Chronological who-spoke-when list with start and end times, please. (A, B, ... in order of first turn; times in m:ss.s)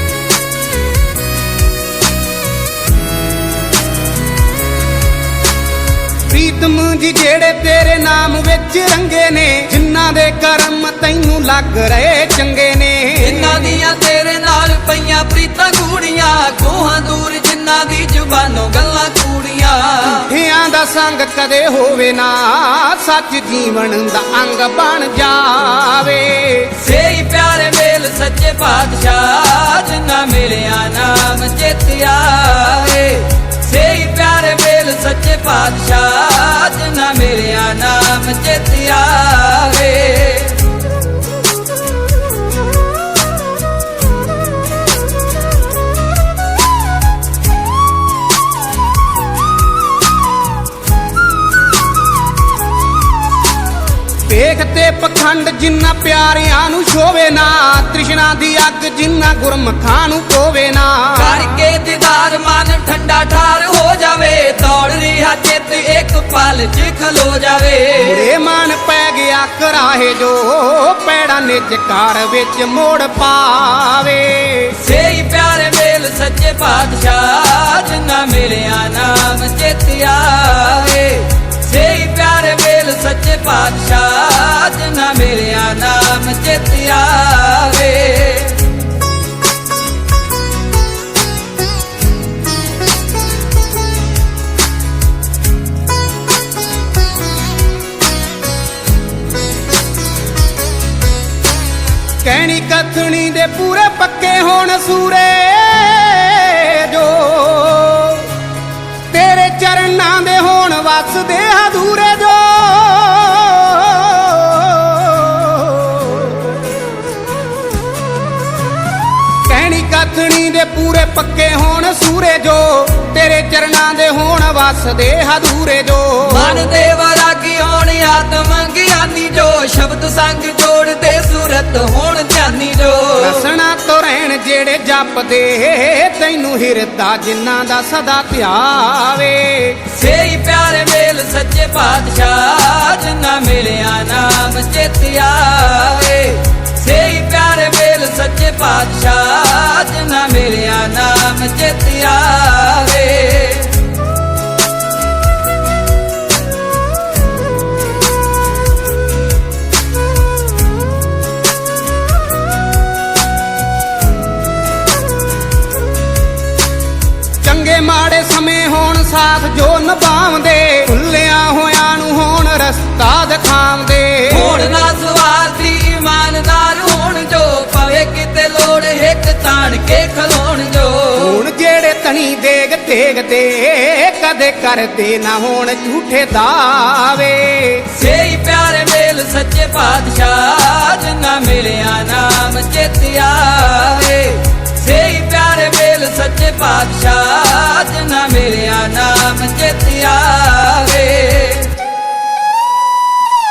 0:06.3-0:13.8 A
0:13.2-0:20.3 B
0:20.2-0:26.7 A
0:26.7-0:40.8 B
0:54.3-1:01.5 A
1:01.1-1:08.3 B
1:08.0-1:14.8 A
1:14.7-1:28.8 B
1:42.2-1:48.3 A
1:49.1-1:56.6 A
1:59.4-2:06.7 A
2:06.2-2:13.4 B
2:13.2-2:19.8 A
2:19.8-2:33.9 B
2:47.4-2:54.7 A
2:54.3-3:01.4 B
3:01.2-3:07.8 A
3:07.9-3:21.8 B